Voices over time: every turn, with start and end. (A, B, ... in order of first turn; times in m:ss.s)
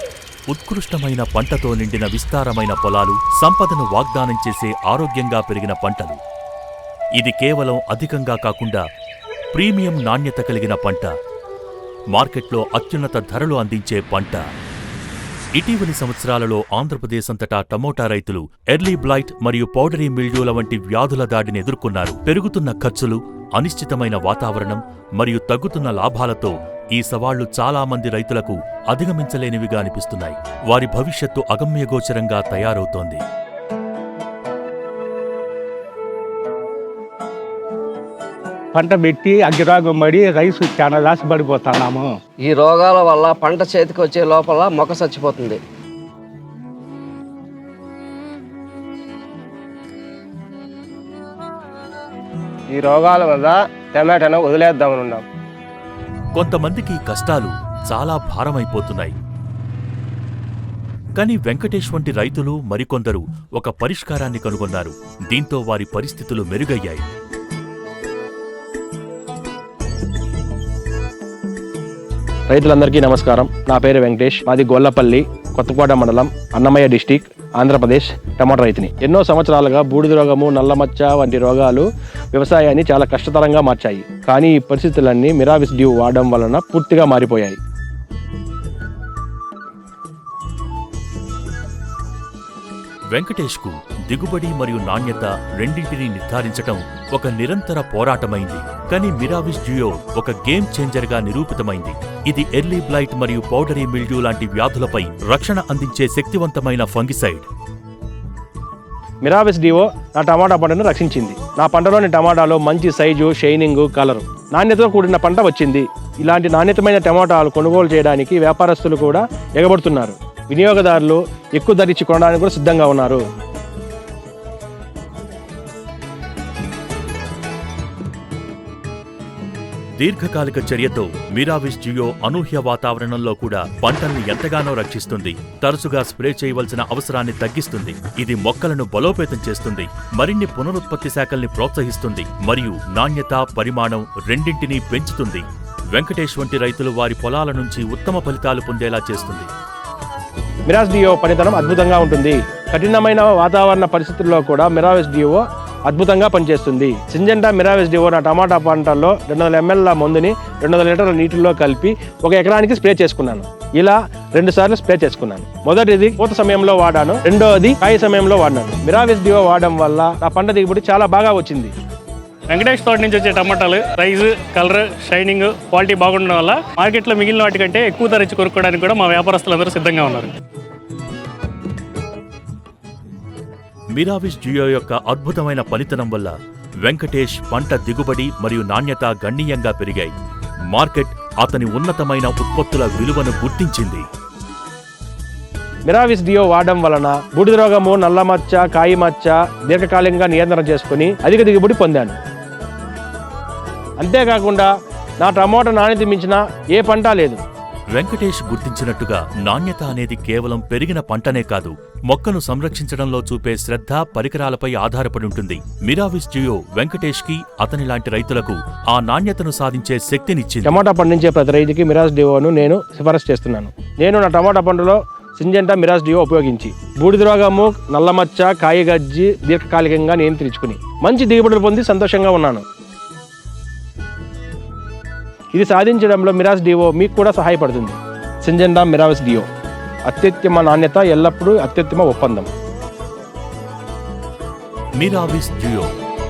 0:00.5-0:06.2 A
0:07.2-0:08.8 A
0:09.5-0:11.1 A
0:12.1-0:14.4 A
0:15.5-0:33.2 A
0:38.7-0:42.1 B
0:42.4-0:45.6 C
0:52.8-0:55.2 D
0:56.4-0:59.2 A
1:01.2-1:07.1 A
1:12.5-1:27.6 E
1:33.1-1:47.5 A
1:49.2-2:03.2 E
2:10.0-2:29.5 A
2:30.7-2:51.7 E
2:52.5-3:00.3 F
3:03.9-3:06.3 A
3:06.8-3:10.1 A
3:10.7-3:14.0 A
3:15.9-3:22.2 E
3:24.0-3:24.7 E
3:25.2-3:27.4 E
3:27.9-3:40.7 A
3:40.6-3:52.6 E
3:55.5-3:59.5 E
4:00.1-4:02.5 E
4:05.0-4:05.9 A